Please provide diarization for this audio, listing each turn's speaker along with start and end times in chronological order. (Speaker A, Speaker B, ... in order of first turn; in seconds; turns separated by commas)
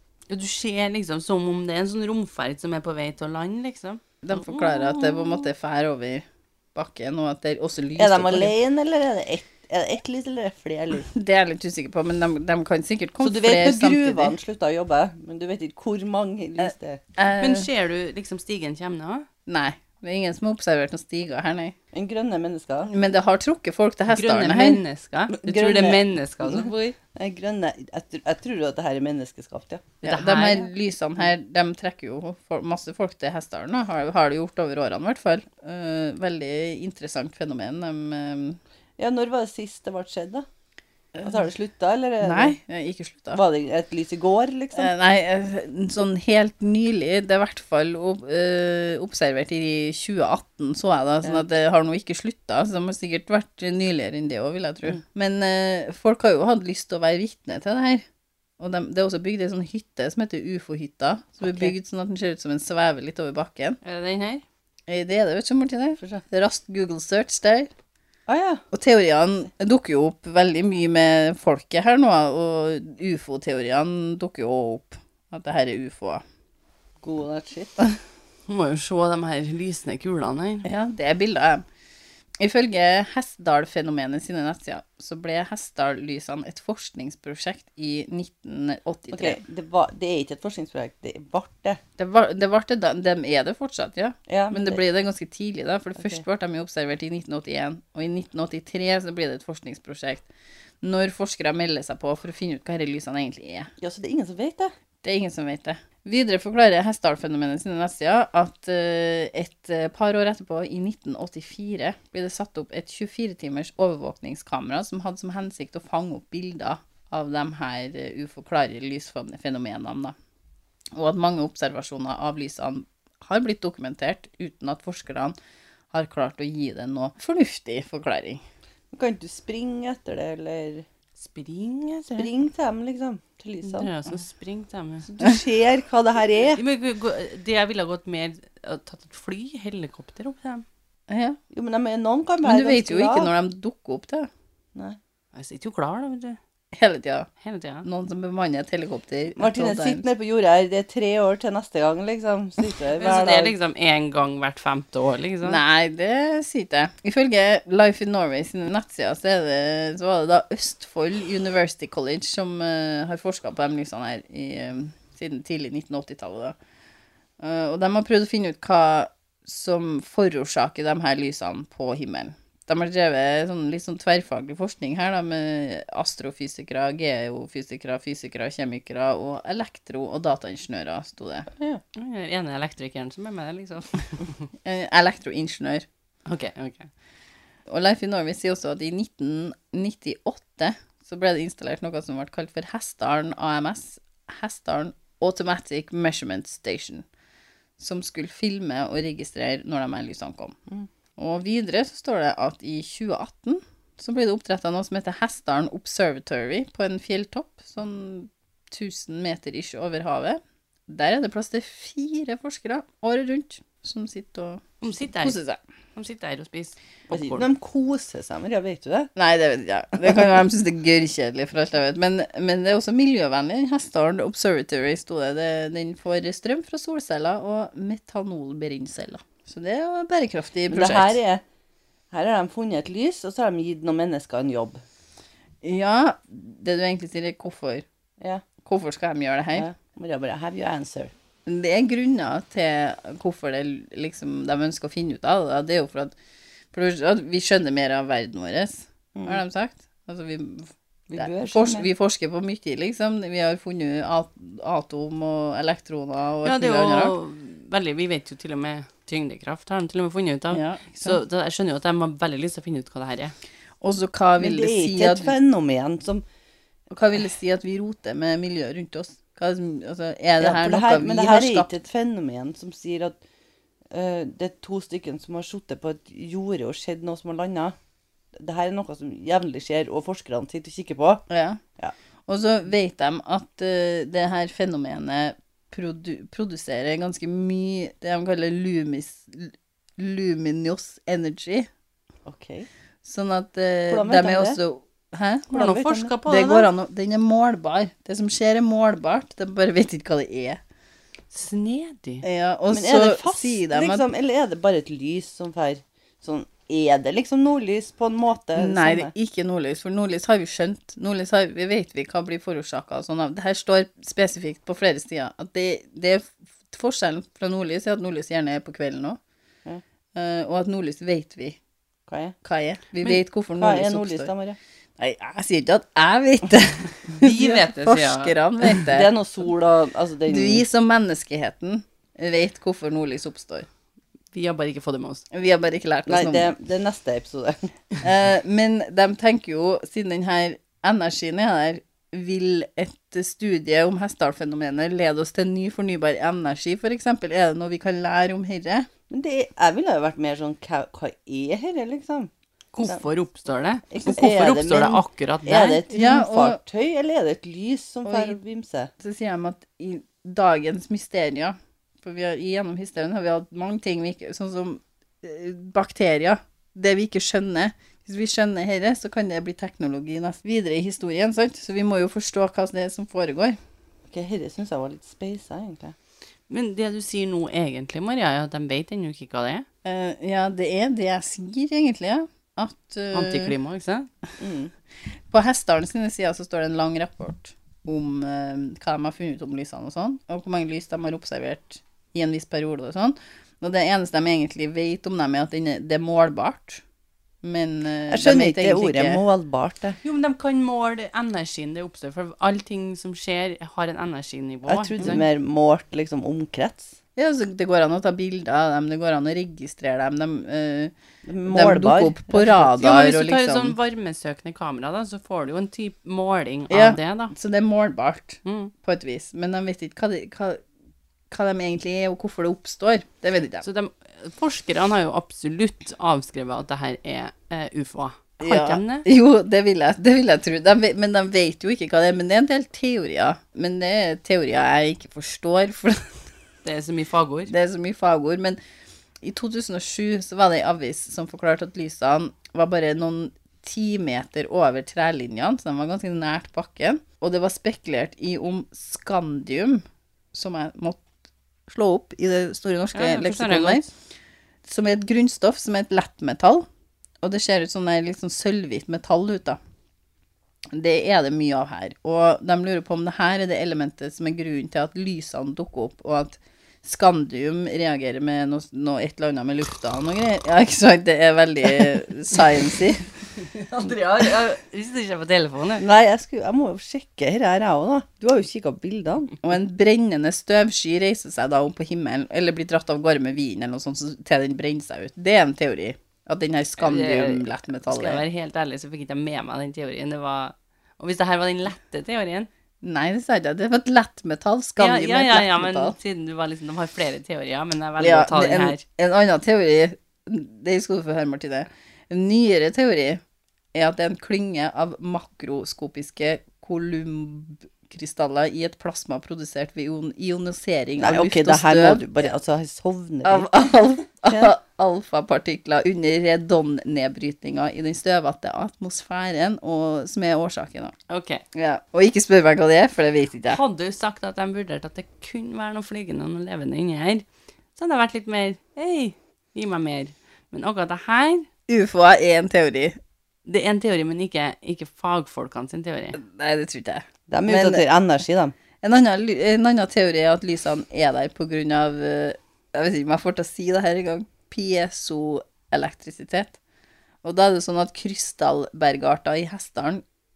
Speaker A: 0.3-5.5, Speaker B: 4.2-8.6, Speaker C: 8.0-11.1, Speaker B: 11.1-14.4, Speaker C: 13.2-17.0, Speaker B: 16.6-17.7, Speaker A: 17.4-19.3, Speaker B: 19.5-21.8, Speaker C: 21.9-22.9, Speaker B: 22.9-24.8, Speaker A: 24.1-27.0, Speaker C: 25.3-30.0, Speaker B: 30.0-38.6, Speaker A: 30.1-30.6, Speaker C: 39.0-40.5, Speaker B: 41.1-41.4, Speaker C: 41.2-42.6, Speaker B: 42.2-43.4, Speaker C: 43.3-44.9, Speaker B: 44.8-58.0, Speaker B: 58.6-63.8, Speaker C: 61.4-61.7, Speaker A: 63.8-64.4, Speaker B: 64.9-67.7, Speaker C: 68.3-68.6, Speaker B: 68.7-76.2, Speaker C: 77.0-77.8, Speaker A: 78.5-80.7, Speaker B: 80.6-81.6, Speaker B: 82.4-89.4, Speaker C: 89.1-91.8, Speaker B: 92.0-100.3, Speaker C: 94.3-94.8, Speaker B: 100.8-103.7, Speaker C: 103.8-104.7, Speaker B: 105.0-120.2, Speaker B: 121.0-125.4, Speaker B: 125.9-128.4, Speaker C: 128.9-130.9, Speaker A: 131.2-132.3, Speaker C: 132.2-133.9, Speaker A: 133.6-135.1, Speaker C: 135.0-136.6, Speaker A: 136.6-140.7, Speaker B: 141.1-141.4, Speaker C: 141.5-143.3, Speaker B: 142.4-144.3, Speaker A: 145.3-146.4, Speaker B: 146.8-147.3, Speaker A: 147.4-147.9, Speaker B: 147.8-150.1, Speaker C: 149.4-153.6, Speaker A: 153.0-155.6, Speaker B: 155.4-166.6, Speaker B: 167.4-181.5, Speaker C: 181.6-181.8, Speaker A: 181.9-184.4, Speaker B: 184.7-185.9, Speaker A: 186.3-186.9, Speaker B: 187.7-197.1, Speaker B: 197.8-200.6, Speaker B: 201.2-215.6, Speaker A: 214.8-215.4, Speaker A: 216.0-217.5, Speaker C: 217.1-219.1, Speaker B: 219.2-231.2, Speaker C: 230.7-231.4, Speaker C: 232.1-234.8, Speaker B: 235.6-237.8, Speaker B: 238.7-239.7, Speaker C: 239.6-241.1, Speaker B: 241.5-246.1, Speaker B: 246.7-257.1, Speaker C: 249.2-249.4, Speaker C: 251.1-251.9, Speaker A: 256.4-263.4, Speaker B: 260.5-261.2, Speaker B: 263.8-265.3, Speaker C: 264.4-266.2, Speaker B: 266.9-271.7, Speaker C: 270.4-273.2, Speaker C: 273.9-277.8, Speaker C: 278.4-281.2, Speaker B: 281.3-281.6, Speaker B: 282.3-291.7, Speaker C: 292.3-292.7, Speaker B: 293.0-295.6, Speaker C: 293.9-294.6, Speaker A: 295.5-296.7, Speaker C: 295.5-296.1, Speaker B: 296.3-300.6, Speaker A: 301.3-302.2, Speaker B: 302.2-304.1, Speaker C: 302.7-309.1, Speaker B: 308.6-319.2, Speaker B: 320.1-321.6, Speaker C: 322.1-322.4, Speaker B: 322.4-324.3, Speaker C: 323.0-324.6, Speaker B: 325.0-329.1, Speaker A: 327.2-328.3, Speaker C: 328.8-330.7, Speaker B: 330.3-333.7, Speaker A: 334.3-335.2, Speaker B: 335.3-336.5, Speaker C: 336.1-337.7, Speaker B: 338.0-348.9, Speaker C: 349.1-352.3, Speaker A: 352.7-355.8, Speaker C: 353.9-358.9, Speaker B: 355.9-356.6, Speaker B: 358.1-358.4, Speaker B: 359.0-373.6, Speaker C: 374.1-375.9, Speaker A: 376.5-379.7, Speaker B: 379.9-383.5, Speaker A: 383.1-384.1, Speaker C: 384.4-384.7, Speaker B: 385.3-396.8, Speaker B: 397.4-399.2, Speaker C: 398.1-400.0, Speaker A: 400.0-405.2, Speaker C: 404.7-407.0, Speaker B: 407.2-410.9, Speaker C: 411.2-412.7, Speaker B: 411.5-413.8, Speaker A: 412.6-417.3, Speaker B: 416.7-420.6, Speaker A: 418.4-418.7, Speaker B: 421.3-423.6, Speaker A: 423.6-429.1, Speaker B: 428.4-436.1, Speaker A: 436.6-437.5, Speaker B: 437.5-438.6, Speaker B: 439.2-451.0, Speaker B: 451.7-453.9, Speaker A: 452.9-453.9, Speaker B: 454.6-456.7, Speaker B: 457.2-459.6, Speaker B: 460.7-473.1, Speaker A: 473.5-475.9, Speaker C: 475.8-479.4, Speaker B: 479.4-488.2, Speaker A: 486.8-492.5, Speaker B: 492.8-495.9, Speaker A: 494.8-498.8, Speaker B: 498.0-503.2, Speaker B: 503.7-512.3, Speaker C: 511.0-513.6, Speaker B: 513.2-521.0, Speaker A: 521.1-521.4, Speaker B: 521.5-523.6, Speaker A: 523.5-527.2, Speaker A: 527.8-531.5, Speaker B: 531.7-533.0, Speaker A: 533.5-536.2, Speaker B: 536.2-537.8, Speaker C: 537.3-538.5, Speaker B: 538.8-546.6, Speaker B: 547.2-550.0